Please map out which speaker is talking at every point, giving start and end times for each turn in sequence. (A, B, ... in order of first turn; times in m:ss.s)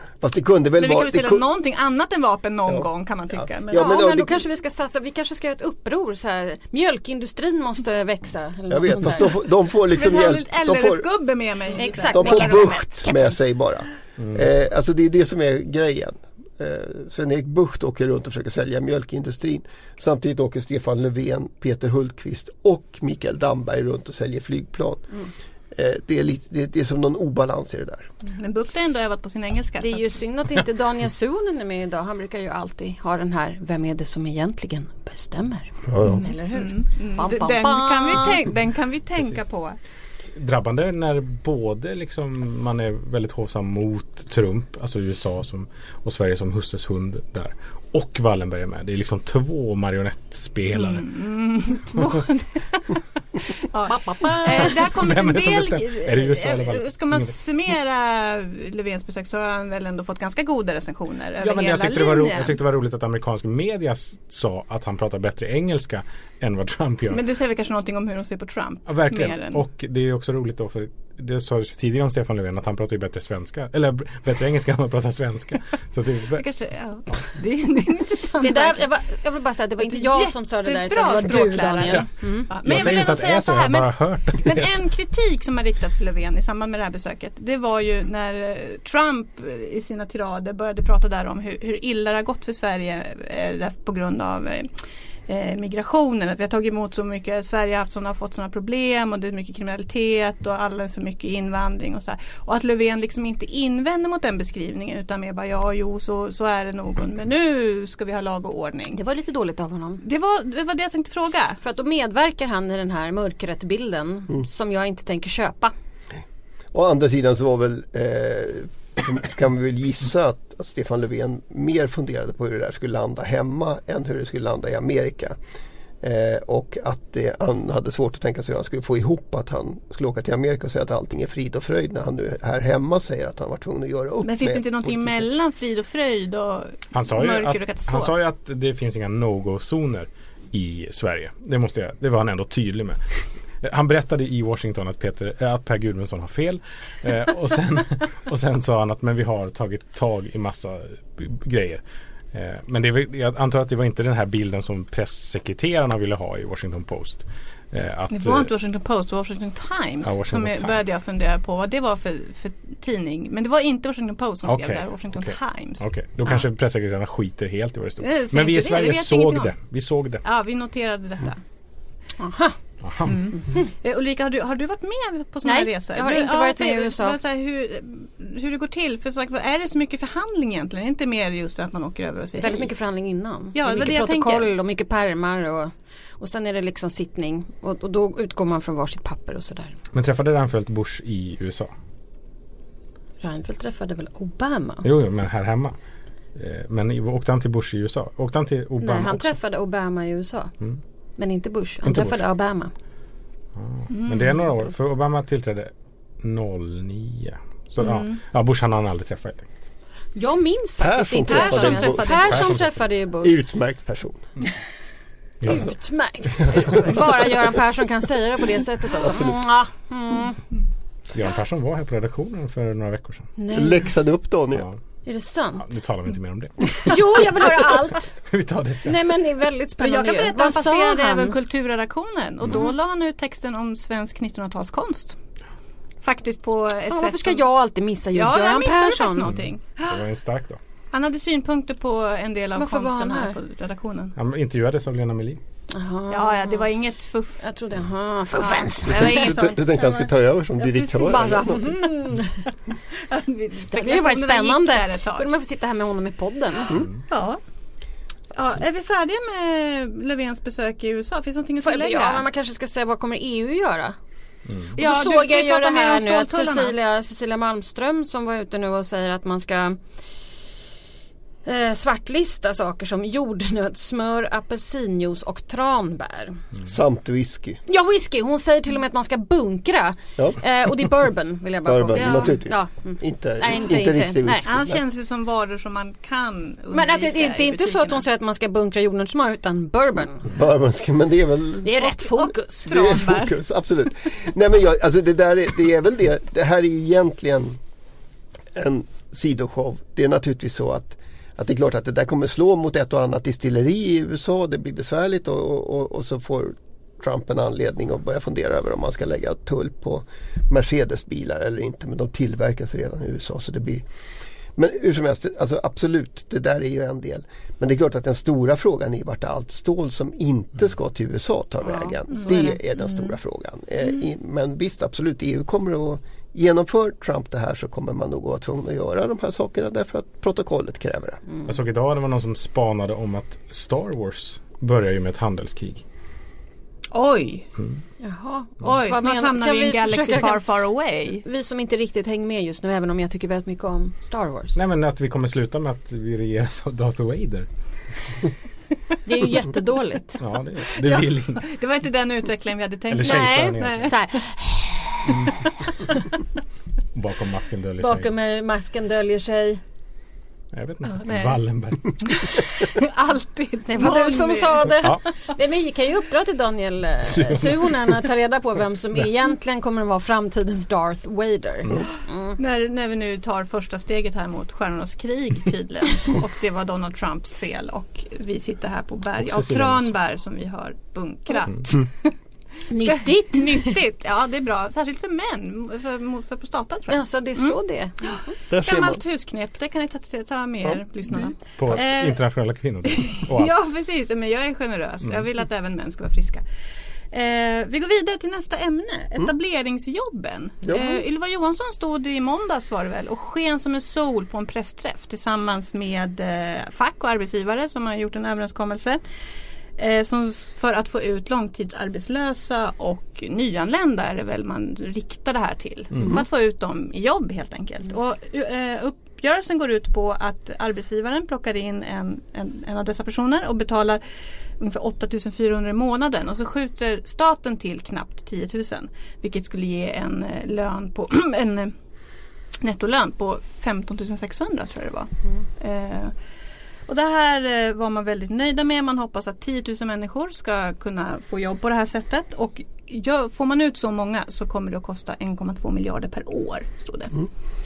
0:00.2-0:01.4 A
0:00.8-0:04.1 B
0:03.4-0:04.4 A
0:03.7-0:09.4 C
0:08.7-0:11.1 A
0:09.9-0:12.8 B
0:11.8-0:13.4 C
0:12.1-0:25.1 A
0:14.2-0:14.5 D
0:25.7-0:28.1 A
0:28.2-0:30.2 B
0:29.8-0:38.4 C
0:35.9-0:36.2 A
0:36.2-0:39.8 B
0:40.4-0:51.1 D
0:50.7-0:53.0 B
0:53.5-1:02.6 B
0:53.8-0:54.8 C
0:54.6-0:57.3 D
1:01.4-1:07.2 D
1:07.1-1:09.6 B
1:08.9-1:16.4 D
1:16.3-1:18.8 B
1:18.4-1:22.8 C
1:19.8-1:34.7 B
1:22.6-1:24.8 D
1:35.3-1:49.0 B
1:48.9-1:50.0 C
1:50.0-1:51.6 B
1:51.6-1:55.7 C
1:56.7-2:05.4 A
2:06.0-2:15.2 A
2:14.2-2:18.2 B
2:16.9-2:23.0 D
2:23.6-2:31.8 D
2:32.3-2:38.5 D
2:38.1-2:46.4 B
2:40.0-2:40.8 D
2:44.4-2:50.2 D
2:48.0-2:49.5 B
2:50.2-2:51.4 B
2:52.2-2:52.6 C
2:52.8-2:53.3 D
2:53.0-3:02.7 B
2:55.4-2:57.2 C
3:02.4-3:09.7 C
3:03.5-3:04.5 B
3:09.9-3:11.7 D
3:13.2-3:14.8 C
3:14.8-3:15.7 D
3:16.4-3:19.4 D
3:18.8-3:20.5 C
3:21.2-3:22.7 C
3:21.8-3:22.2 D
3:23.6-3:29.5 D
3:23.9-3:24.4 B
3:27.8-3:28.2 B
3:30.2-3:33.4 C
3:30.8-3:32.6 A
3:31.2-3:32.5 B
3:32.3-3:32.6 D
3:33.2-3:34.2 A
3:35.4-3:35.7 D
3:35.4-3:40.4 C
3:36.4-3:37.0 A
3:41.1-3:43.3 D
3:43.4-3:43.8 C
3:43.5-3:44.7 A
3:45.0-3:45.7 C
3:45.6-3:47.6 D
3:46.8-3:48.2 C
3:48.2-3:49.0 D
3:48.8-3:51.3 C
3:49.8-3:55.2 B
3:56.0-3:57.4 B
3:56.9-3:59.3 C
3:58.1-4:00.0 B
3:59.2-4:00.6 D
4:00.9-4:04.2 B
4:02.5-4:03.4 C
4:04.2-4:05.4 D
4:05.7-4:06.7 C
4:06.1-4:07.4 B
4:07.4-4:09.6 C
4:08.4-4:10.0 B
4:08.9-4:11.7 A
4:10.7-4:11.8 B
4:10.9-4:12.4 C
4:12.9-4:15.3 B
4:13.7-4:16.8 C
4:17.1-4:17.4 B
4:18.3-4:22.2 B
4:21.6-4:24.0 C
4:24.5-4:24.7 D
4:24.7-4:29.8 C
4:24.8-4:26.7 B
4:31.4-4:36.4 C
4:36.6-4:37.6 A
4:37.7-4:44.5 C
4:41.6-4:44.8 A
4:41.9-4:42.4 B
4:44.4-4:48.0 B
4:46.7-4:50.3 C
4:50.2-4:51.8 A
4:51.6-4:52.8 C
4:52.2-4:53.4 B
4:52.7-4:57.6 A
4:58.5-5:13.8 A
5:14.6-5:31.2 A
5:21.6-5:22.6 C
5:31.4-5:35.8 D
5:36.9-5:37.5 B
5:38.0-5:40.4 C
5:38.6-5:41.2 B
5:41.1-5:44.6 C
5:44.5-5:47.5 D
5:49.0-5:50.2 C
5:50.2-5:51.4 D
5:50.8-5:54.2 B
5:52.9-5:53.9 D
5:53.0-5:55.1 C
5:55.1-5:55.4 D
5:56.9-5:58.1 D
5:57.8-5:59.6 C
6:00.5-6:02.4 D
6:00.9-6:01.4 B
6:02.0-6:04.9 B
6:03.7-6:12.4 C
6:07.0-6:07.9 D
6:12.4-6:22.1 B
6:19.2-6:19.9 D
6:22.7-6:23.8 C
6:22.8-6:27.6 B
6:26.9-6:28.3 C
6:28.1-6:32.2 B
6:28.5-6:29.0 A
6:31.6-6:33.5 D
6:32.9-6:36.4 B
6:37.1-6:49.0 B
6:40.6-6:41.0 A
6:49.8-7:04.0 B
7:04.6-7:11.7 B
7:12.6-7:16.1 B
7:16.9-7:27.2 B